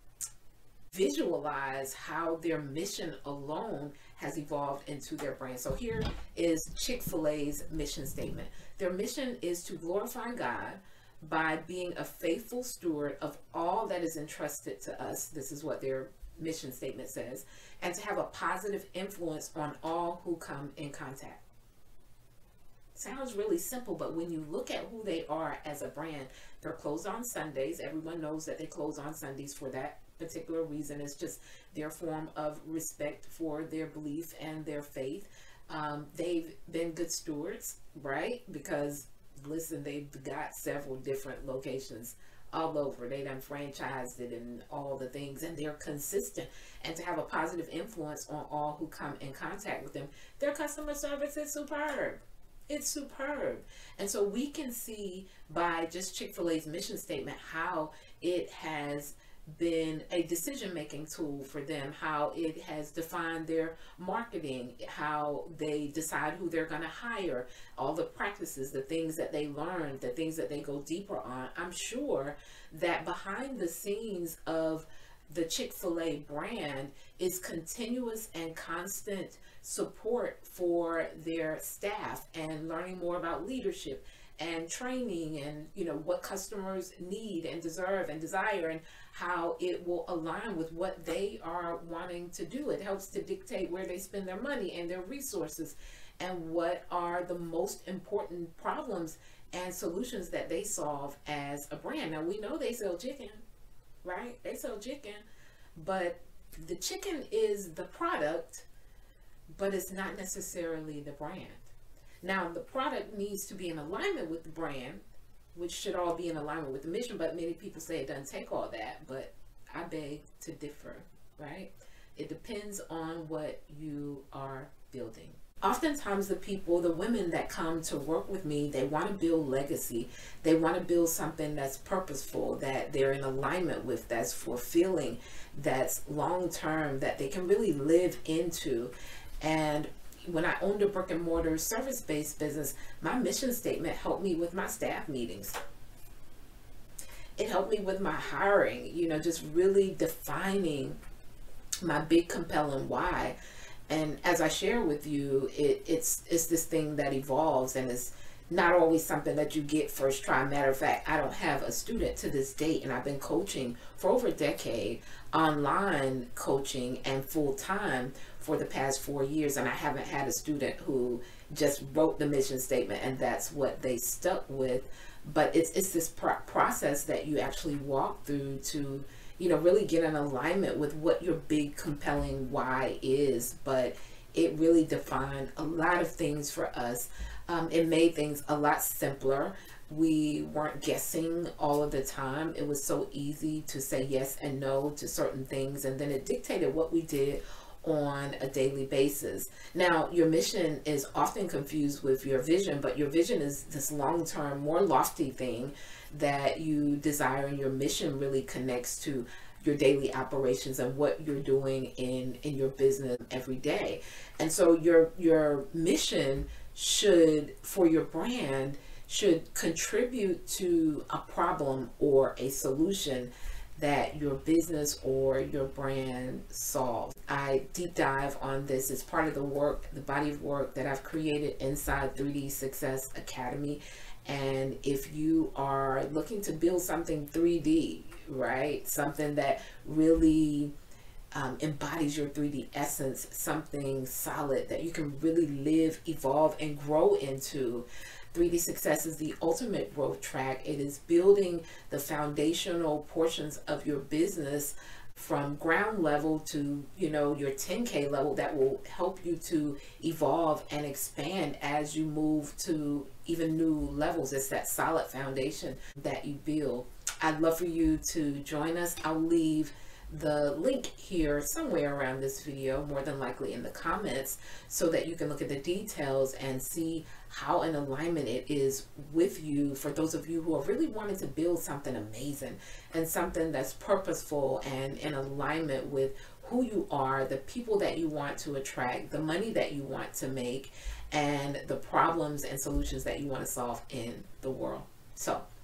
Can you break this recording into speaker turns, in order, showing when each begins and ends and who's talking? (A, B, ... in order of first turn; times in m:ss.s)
0:00.9-0:21.4 A
0:23.0-1:43.4 A
1:44.0-1:45.2 A
1:45.8-1:48.7 A
1:49.5-1:51.7 A
1:52.2-1:55.0 A
1:55.6-2:25.6 A
2:27.4-2:31.0 A
2:31.8-2:33.4 A
2:33.9-4:00.7 A
4:01.3-4:55.5 A